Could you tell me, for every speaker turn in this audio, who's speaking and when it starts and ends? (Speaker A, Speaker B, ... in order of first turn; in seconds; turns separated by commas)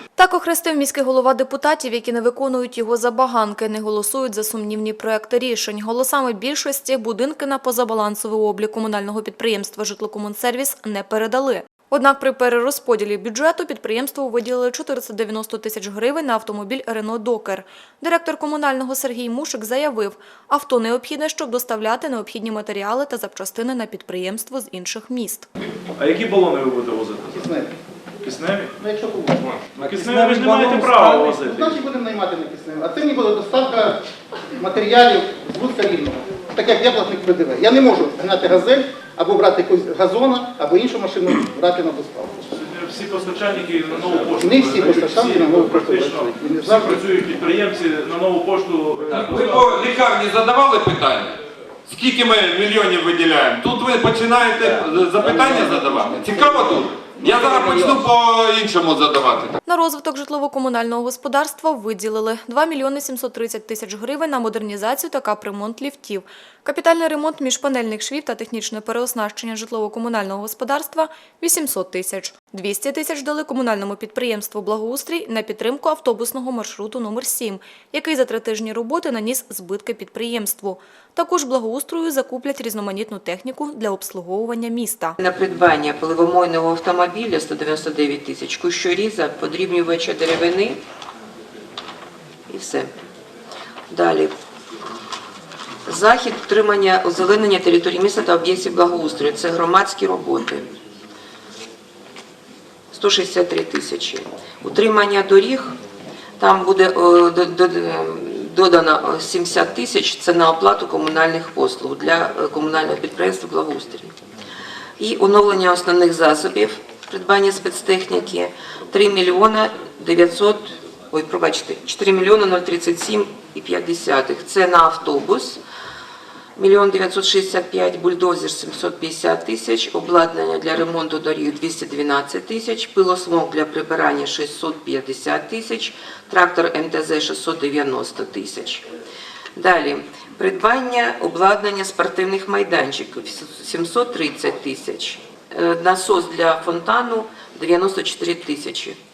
Speaker A: 0.1-25.5, Speaker B: 25.9-27.5, Speaker C: 27.3-27.7, Speaker B: 28.2-28.7, Speaker C: 28.8-29.4, Speaker B: 29.8-31.8, Speaker D: 29.8-30.7, Speaker C: 30.7-34.0, Speaker C: 34.6-42.4, Speaker B: 42.4-49.6, Speaker C: 44.4-47.0, Speaker E: 49.1-59.6, Speaker A: 59.6-85.2, Speaker D: 85.2-90.8, Speaker D: 92.5-92.9, Speaker D: 93.9-94.3, Speaker D: 95.8-100.7, Speaker D: 102.9-105.8, Speaker D: 106.4-114.1, Speaker D: 115.0-125.6, Speaker D: 126.5-138.9, Speaker D: 139.5-149.0